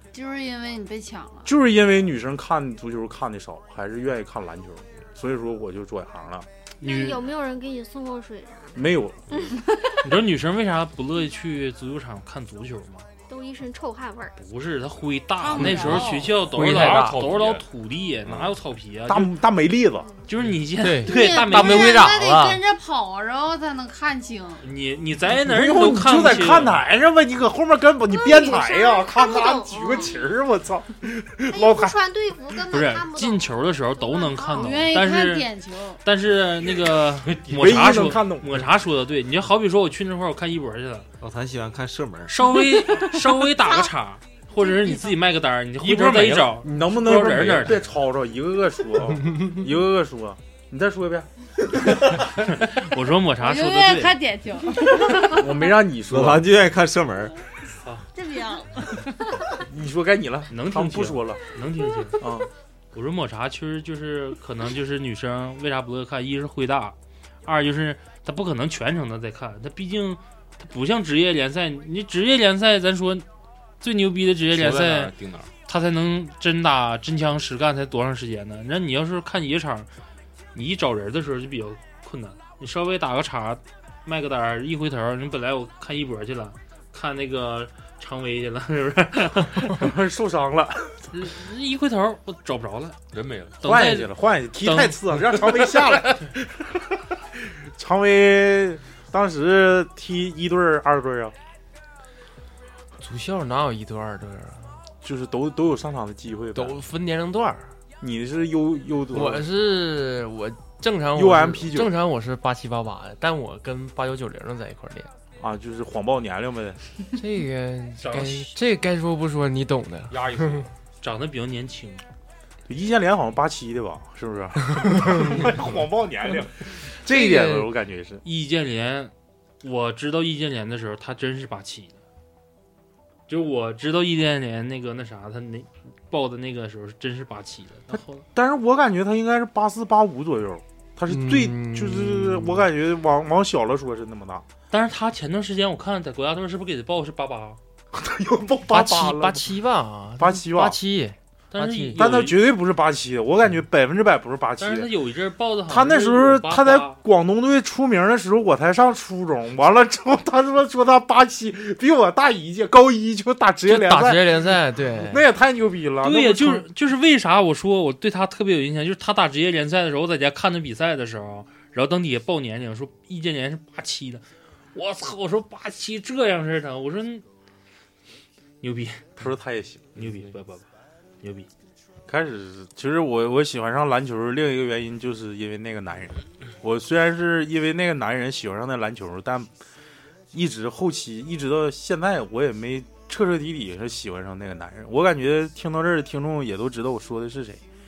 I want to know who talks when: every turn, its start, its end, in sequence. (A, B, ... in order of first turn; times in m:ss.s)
0:00.1-0:01.5 A
0:01.4-0:06.5 B
0:06.8-0:09.6 C
0:06.8-0:07.3 D
0:08.7-0:09.3 B
0:10.0-0:13.1 D
0:13.3-0:14.3 C
0:14.4-0:19.3 D
0:15.4-0:16.4 A
0:15.7-0:17.6 E
0:16.5-0:17.2 F
0:19.1-0:20.1 B
0:20.3-0:22.2 D
0:20.8-0:22.6 F
0:20.9-0:24.6 A
0:24.6-0:26.8 D
0:25.3-0:31.9 B
0:28.1-0:30.3 C
0:31.5-0:34.8 C
0:32.7-0:35.5 D
0:34.4-0:36.0 A
0:36.0-0:41.1 D
0:37.5-0:38.6 B
0:41.2-0:42.5 G
0:42.3-0:47.8 D
0:44.6-0:45.2 A
0:45.8-0:46.6 E
0:46.6-0:52.2 B
0:52.5-0:54.2 D
0:53.4-0:55.6 A
0:55.2-0:56.5 B
0:56.1-0:57.3 G
0:58.1-0:59.4 A
0:59.6-1:01.4 B
1:00.5-1:02.2 D
1:02.2-1:02.5 B
1:02.9-1:13.2 D
1:13.8-1:15.1 D
1:14.5-1:15.5 E
1:15.6-1:19.9 D
1:20.5-1:29.9 D
1:29.7-1:31.1 B
1:31.1-1:33.0 D
1:33.1-1:33.6 E
1:33.6-1:35.9 D
1:33.6-1:37.0 B
1:37.6-1:41.3 B
1:43.0-1:44.8 F
1:45.0-1:46.8 B
1:46.5-1:47.7 F
1:48.0-1:49.5 B
1:49.1-1:55.1 F
1:51.1-1:51.9 B
1:55.4-1:56.8 B
1:57.2-2:00.7 F
1:58.0-1:58.5 D
2:00.1-2:00.7 E
2:01.0-2:02.0 D
2:02.7-2:08.2 B
2:07.1-2:07.7 F
2:08.2-2:12.0 D
2:13.3-2:18.2 D
2:18.3-2:24.4 B
2:21.1-2:22.7 F
2:24.7-2:27.6 D
2:27.9-2:29.4 B
2:28.7-2:32.0 F
2:30.2-2:30.8 B
2:31.5-2:32.4 D
2:31.9-2:34.9 B
2:34.6-2:37.0 D
2:35.7-2:46.6 B
2:43.6-2:45.2 F
2:46.0-2:57.2 D
2:58.6-2:59.1 D
2:59.2-3:00.0 B
3:00.0-3:00.7 D
3:01.2-3:01.5 D
3:02.1-3:09.5 B
3:10.3-3:17.6 B